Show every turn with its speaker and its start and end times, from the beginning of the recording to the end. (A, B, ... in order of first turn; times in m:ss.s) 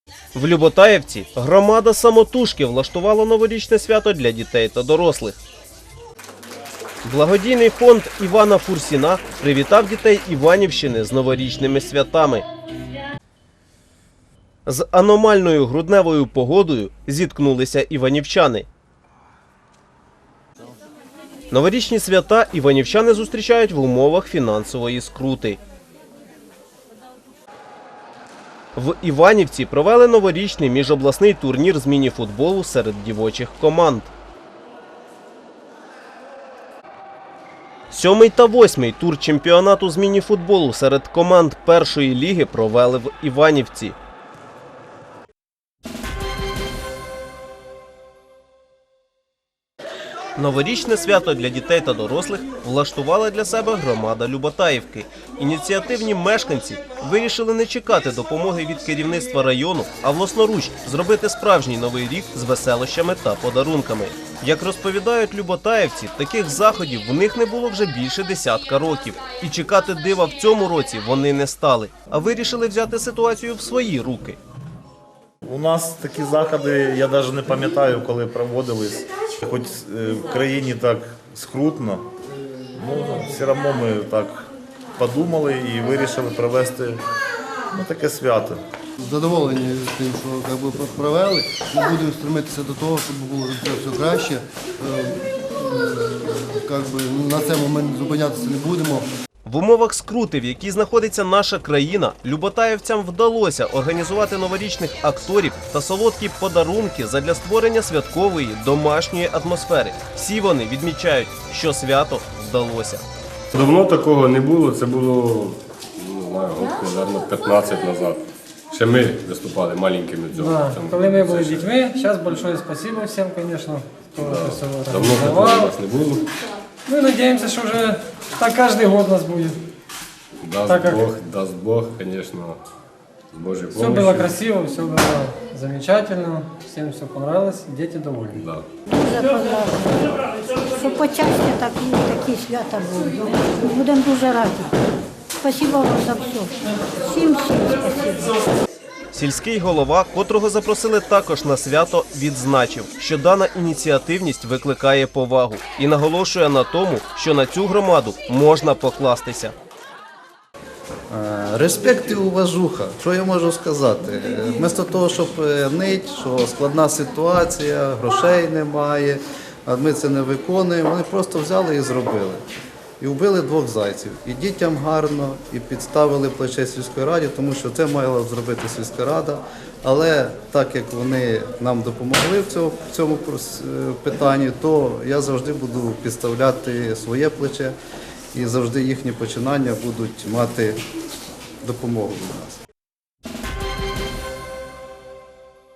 0:00.3-0:05.4 A
0:07.0-0:12.4 A
0:14.6-0:18.7 A
0:21.5-0:25.6 A
0:28.8-0:34.1 A
0:37.9-0:44.0 A
0:50.4-1:14.4 A
1:15.4-1:22.0 B
1:22.7-1:24.5 B
1:25.0-1:27.0 B
1:27.7-1:28.6 B
1:29.0-1:39.1 C
1:39.4-1:53.0 A
1:53.5-2:01.8 D
2:00.3-2:05.8 E
2:04.2-2:06.2 D
2:06.9-2:09.6 E
2:10.4-2:12.6 D
2:10.6-2:11.1 E
2:13.3-2:14.4 D
2:13.7-2:18.4 E
2:18.3-2:18.7 D
2:18.9-2:20.0 F
2:20.7-2:24.7 F
2:25.4-2:26.5 F
2:27.0-2:28.4 F
2:29.1-2:39.5 A
2:41.1-2:52.4 G
2:53.0-3:07.7 G
3:08.3-3:10.8 G
3:11.6-3:12.6 G